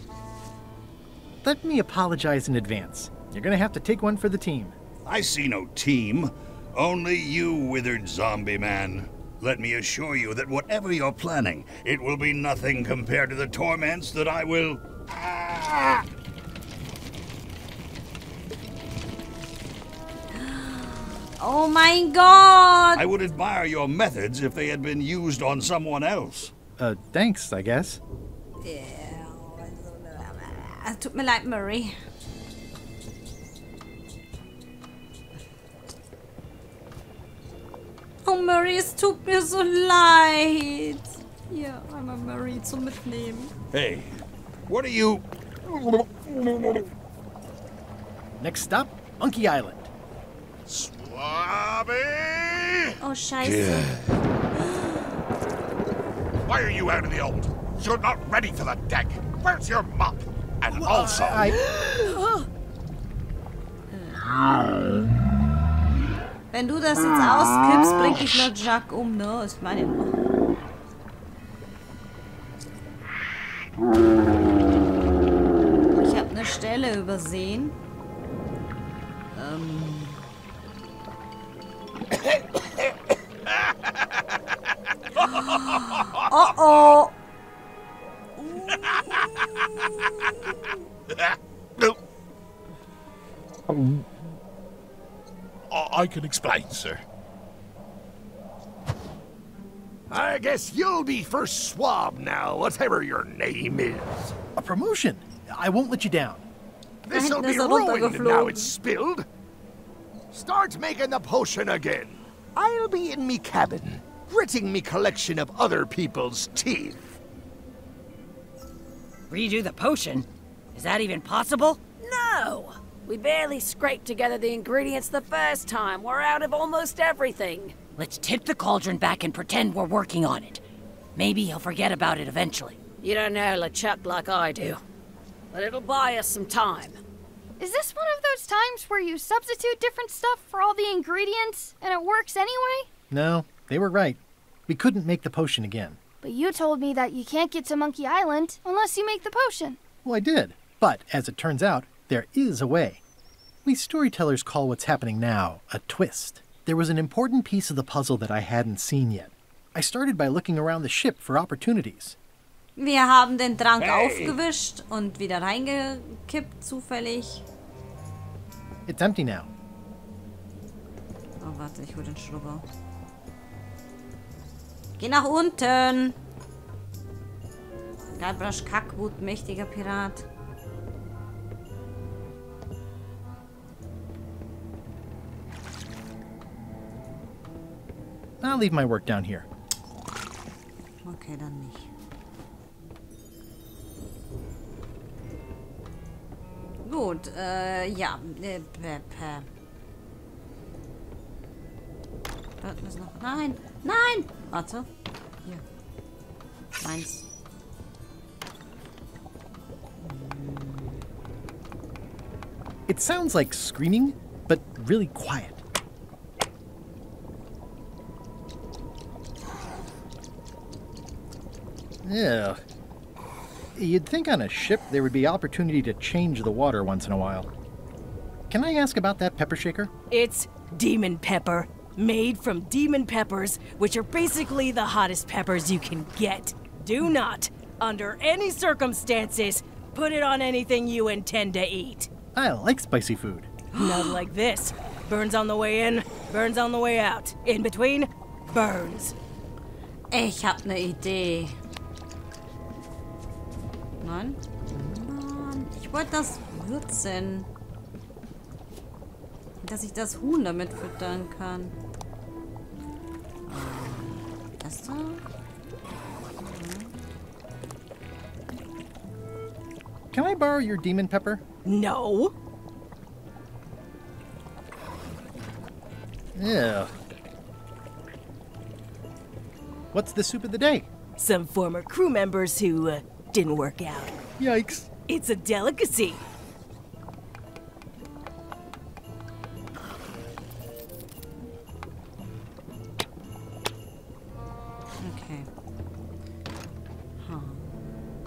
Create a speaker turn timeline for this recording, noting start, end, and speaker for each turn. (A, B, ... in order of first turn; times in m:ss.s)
0:01.4-0:04.8 A
0:05.1-0:16.0 B
0:20.3-0:23.1 C
0:23.0-0:26.5 B
0:26.8-0:28.0 A
0:28.6-0:32.0 C
0:38.2-0:43.5 C
0:43.7-0:46.9 B
0:48.4-0:49.9 A
0:50.7-0:52.9 D
0:53.0-0:53.9 C
0:53.4-0:54.2 B
0:54.6-0:55.0 C
0:56.4-1:01.6 D
1:00.7-1:01.6 A
1:03.9-1:04.3 C
1:06.5-1:10.2 C
1:16.0-1:17.8 C
1:19.3-1:20.3 C
1:25.3-1:27.2 C
1:31.1-1:32.0 D
1:35.7-1:37.0 D
1:40.1-1:44.4 D
1:44.6-1:46.4 A
1:47.1-1:49.2 D
1:47.1-1:48.7 C
1:50.3-1:57.1 D
1:59.3-2:01.8 E
2:02.0-2:07.8 F
2:08.0-2:10.6 E
2:11.2-2:12.8 E
2:13.0-2:14.8 F
2:15.5-2:17.0 F
2:17.6-2:22.9 G
2:23.1-2:26.0 A
2:26.2-2:29.8 G
2:30.0-2:33.0 A
2:33.6-2:42.2 A
2:42.8-2:47.4 C
2:43.8-2:44.4 B
2:48.9-2:49.5 A
2:51.4-2:52.6 C
2:55.0-2:56.2 C
2:58.2-3:00.3 C
3:08.4-3:09.5 A
3:11.0-3:11.9 C
3:16.8-3:19.5 C
3:22.6-3:24.9 C
3:26.8-3:27.3 C
3:30.0-3:31.0 C
3:32.9-3:35.6 A
3:42.0-3:42.6 A
3:43.8-3:47.5 A
3:48.5-3:49.9 A
3:50.1-4:02.1 H
4:02.3-4:03.5 A
4:03.7-4:04.2 C
4:03.8-4:09.2 H
4:10.1-4:11.6 C
4:14.0-4:17.5 C
4:19.6-4:21.7 C
4:23.5-4:25.2 C
4:26.4-4:26.9 C
4:30.1-4:31.4 A
4:31.6-4:32.3 H
4:36.4-4:36.9 A
4:39.9-4:40.9 A
4:41.2-4:44.2 H
4:44.4-4:44.9 A
4:45.1-4:46.2 H
4:55.0-4:55.5 C
4:57.2-4:57.7 C